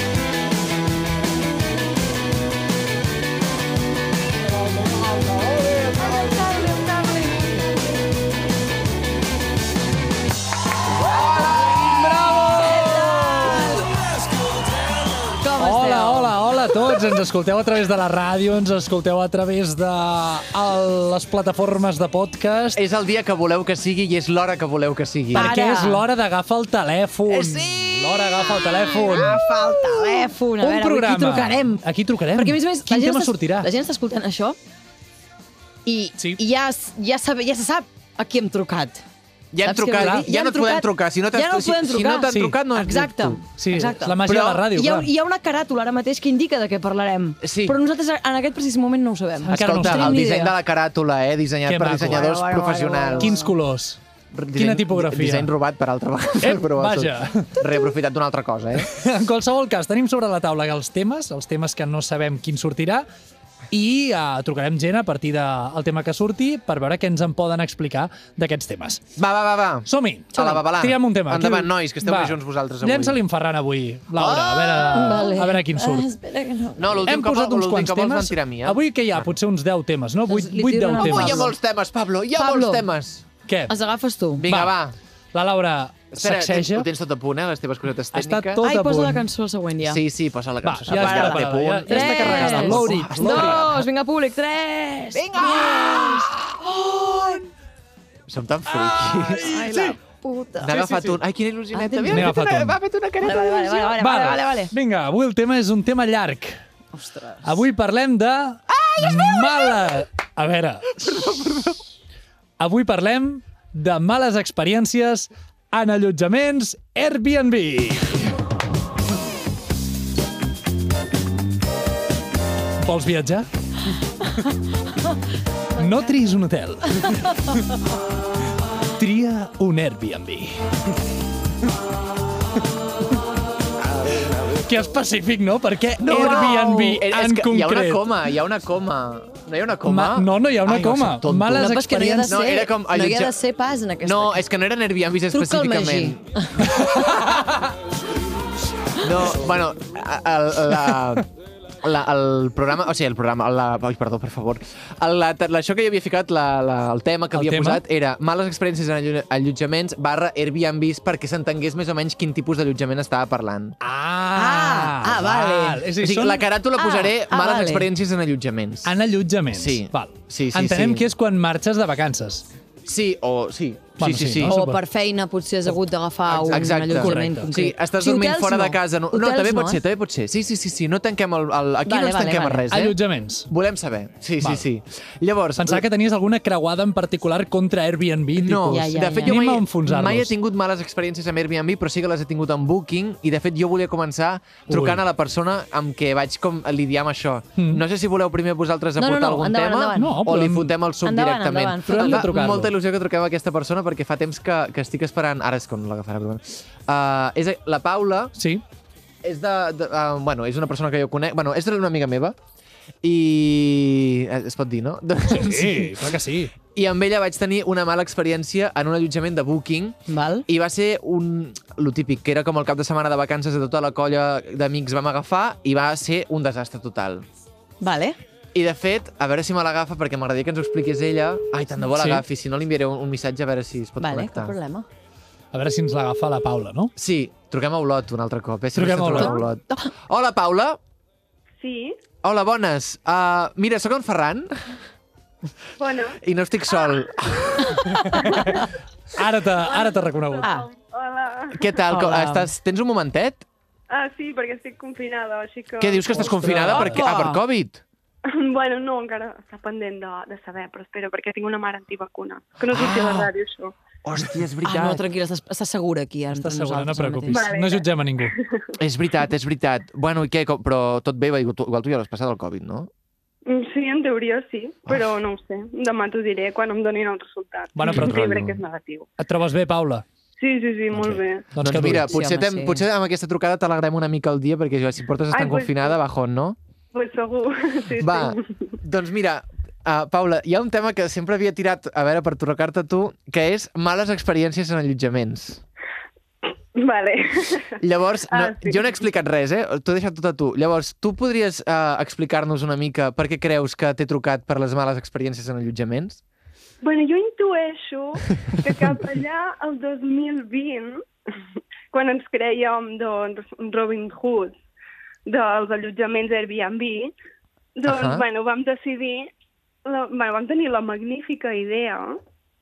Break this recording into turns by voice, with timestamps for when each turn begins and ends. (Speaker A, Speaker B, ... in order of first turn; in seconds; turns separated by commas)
Speaker A: 6.0-7.6, Speaker B: 11.9-13.6, Speaker A: 12.6-13.9, Speaker A: 15.4-16.4, Speaker B: 15.6-22.8, Speaker C: 22.8-25.5, Speaker B: 25.3-29.4, Speaker A: 25.3-26.1, Speaker C: 27.3-30.3, Speaker A: 28.4-34.6, Speaker B: 30.6-33.7, Speaker A: 35.9-39.0, Speaker C: 39.5-43.4, Speaker A: 39.6-50.6, Speaker B: 39.9-40.2, Speaker B: 42.3-42.6, Speaker B: 43.5-45.1, Speaker C: 44.2-44.7, Speaker C: 47.4-47.8, Speaker B: 49.4-50.2, Speaker C: 49.5-53.4, Speaker B: 51.7-52.3, Speaker A: 52.1-53.5, Speaker B: 53.2-54.0, Speaker C: 54.3-58.9, Speaker B: 54.5-55.5, Speaker B: 56.4-57.6, Speaker B: 58.8-63.1, Speaker B: 63.7-69.1, Speaker C: 69.2-73.2, Speaker B: 69.9-76.1, Speaker C: 74.2-75.0, Speaker A: 74.9-77.1, Speaker C: 76.8-79.3, Speaker B: 77.1-81.5, Speaker A: 80.3-81.5, Speaker C: 81.0-83.3, Speaker A: 82.3-82.9, Speaker B: 83.5-83.7, Speaker A: 83.7-84.5, Speaker C: 84.4-85.0, Speaker B: 84.5-84.8, Speaker B: 85.3-86.9, Speaker C: 86.1-88.6, Speaker B: 88.1-89.3, Speaker A: 88.6-90.0, Speaker C: 89.9-93.7, Speaker B: 90.6-93.7, Speaker A: 90.9-97.4, Speaker C: 95.1-96.4, Speaker C: 98.3-99.5, Speaker B: 98.7-100.0, Speaker A: 99.5-100.9, Speaker C: 100.7-103.9, Speaker B: 100.7-101.2, Speaker A: 101.7-102.3, Speaker B: 102.1-102.8, Speaker A: 103.2-104.7, Speaker B: 103.9-106.6, Speaker A: 106.9-107.7, Speaker B: 107.5-111.0, Speaker C: 108.7-109.9, Speaker C: 111.1-111.7, Speaker B: 112.6-118.3, Speaker B: 122.8-123.5, Speaker B: 125.8-127.7, Speaker B: 129.0-130.6, Speaker B: 134.1-138.0, Speaker C: 136.0-141.7, Speaker B: 139.8-142.4, Speaker A: 141.6-144.4, Speaker C: 142.3-143.3, Speaker C: 144.0-147.4, Speaker A: 145.3-147.2, Speaker C: 149.0-151.3, Speaker C: 151.8-163.8, Speaker B: 157.3-157.8, Speaker B: 163.8-166.5, Speaker A: 164.3-165.8, Speaker C: 166.0-168.9, Speaker A: 166.8-167.9, Speaker B: 168.8-172.4, Speaker C: 169.5-171.1, Speaker C: 172.8-174.5, Speaker B: 174.0-174.8, Speaker A: 174.4-179.8, Speaker B: 176.3-177.5, Speaker C: 176.3-183.0, Speaker A: 181.9-182.7, Speaker B: 182.7-183.5, Speaker C: 183.5-185.8, Speaker B: 185.6-190.3, Speaker C: 188.4-208.3, Speaker A: 188.7-189.4, Speaker B: 194.7-195.0, Speaker B: 197.6-197.8, Speaker A: 199.0-200.2, Speaker B: 200.0-200.8, Speaker A: 201.0-202.3, Speaker B: 201.9-202.7, Speaker B: 208.4-208.6, Speaker C: 209.2-212.4, Speaker C: 213.0-216.0, Speaker B: 215.3-216.5, Speaker C: 216.7-227.3, Speaker A: 220.1-220.5, Speaker A: 227.8-228.2, Speaker C: 228.5-234.6, Speaker B: 231.8-232.2, Speaker A: 234.0-234.9, Speaker B: 235.5-236.9, Speaker C: 237.0-240.8, Speaker B: 238.8-239.4, Speaker A: 239.2-239.9, Speaker D: 241.6-242.0, Speaker C: 242.2-244.8, Speaker D: 245.8-246.2, Speaker C: 246.2-248.2, Speaker B: 247.9-248.4, Speaker D: 248.2-248.6, Speaker B: 249.2-250.5, Speaker D: 249.6-251.6, Speaker A: 250.4-250.7, Speaker C: 251.5-253.5, Speaker A: 251.9-252.5, Speaker D: 253.9-256.6, Speaker C: 255.8-257.8, Speaker B: 256.2-257.0, Speaker A: 256.7-257.4, Speaker D: 258.3-263.8, Speaker C: 262.7-263.3, Speaker C: 264.0-265.0, Speaker A: 264.6-267.5, Speaker B: 266.4-268.4, Speaker D: 267.3-268.7, Speaker C: 268.8-272.9, Speaker D: 273.5-279.1, Speaker B: 277.8-278.6, Speaker B: 279.2-280.1, Speaker D: 280.4-281.5, Speaker C: 280.9-286.6, Speaker B: 281.6-282.1, Speaker A: 282.0-282.8, Speaker D: 285.3-286.0, Speaker D: 286.9-288.8, Speaker C: 288.0-295.6, Speaker D: 296.8-297.7, Speaker C: 297.8-306.2, Speaker D: 298.3-298.8, Speaker D: 306.8-311.0, Speaker D: 311.9-314.6, Speaker D: 315.3-317.1, Speaker D: 317.8-319.3, Speaker C: 317.9-318.3, Speaker D: 319.9-322.2